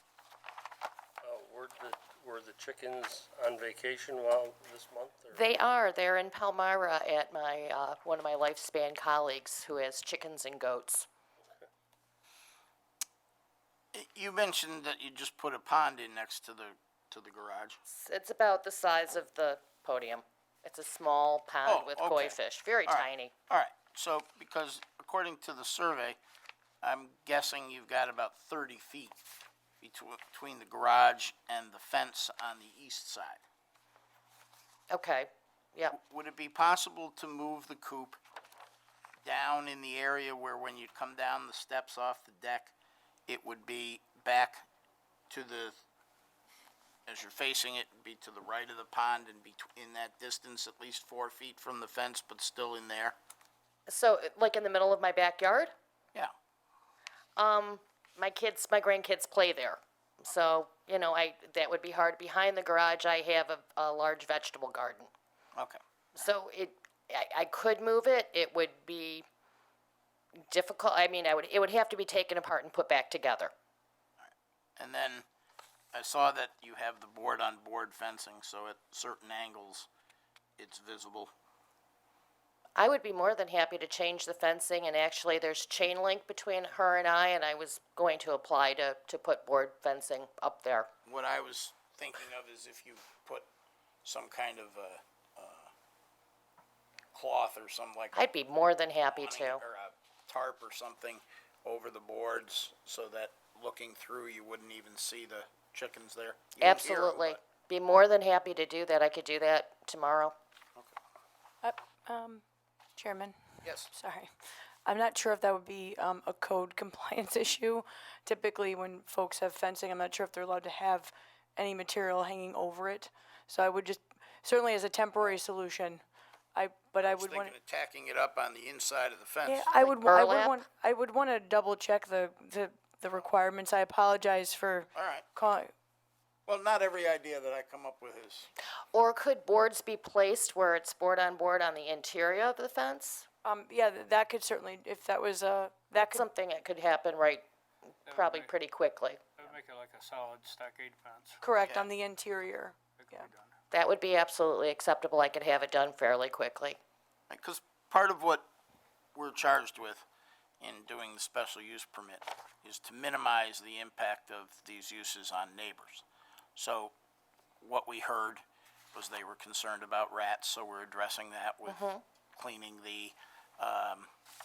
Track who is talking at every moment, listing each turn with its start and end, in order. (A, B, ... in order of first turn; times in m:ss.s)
0:01.2-0:05.4 A
0:05.3-0:11.1 B
0:13.9-0:17.8 C
0:17.8-0:23.3 B
0:21.6-0:26.2 C
0:26.8-0:29.2 C
0:29.8-0:33.4 C
0:34.9-0:36.0 B
0:35.9-0:38.2 C
0:39.2-0:42.7 C
0:43.3-0:44.6 C
0:45.3-0:45.8 C
0:47.1-0:53.2 C
0:53.9-0:55.7 B
0:57.4-1:05.1 B
1:06.2-1:09.2 B
1:10.5-1:13.5 B
1:14.2-1:15.2 C
1:15.9-1:19.9 C
1:20.6-1:21.3 C
1:22.8-1:30.9 B
1:31.0-1:33.5 C
1:34.0-1:35.7 C
1:37.1-1:38.2 C
1:38.1-1:39.6 B
1:39.1-1:47.4 C
1:46.6-1:50.3 B
1:51.6-1:52.4 D
1:53.0-1:53.4 D
1:53.6-1:53.9 C
1:53.9-1:54.3 D
1:54.8-2:07.5 D
2:07.0-2:09.7 C
2:09.4-2:15.7 D
2:09.8-2:10.6 B
2:14.9-2:15.2 C
2:16.4-2:18.5 C
2:18.9-2:23.2 B
2:23.4-2:26.2 D
2:25.9-2:27.4 B
2:28.0-2:28.5 E
2:28.0-2:29.2 B
2:29.4-2:31.6 E
2:31.4-2:33.3 D
2:31.6-2:31.9 C
2:33.0-2:33.5 E
2:33.7-2:36.8 B
2:37.3-2:38.4 C
2:39.1-2:40.0 C
2:40.6-2:46.0 C
2:46.6-2:46.9 C
2:47.6-2:48.4 C
2:48.9-2:51.8 C
2:51.7-2:52.0 B
2:52.4-2:54.1 C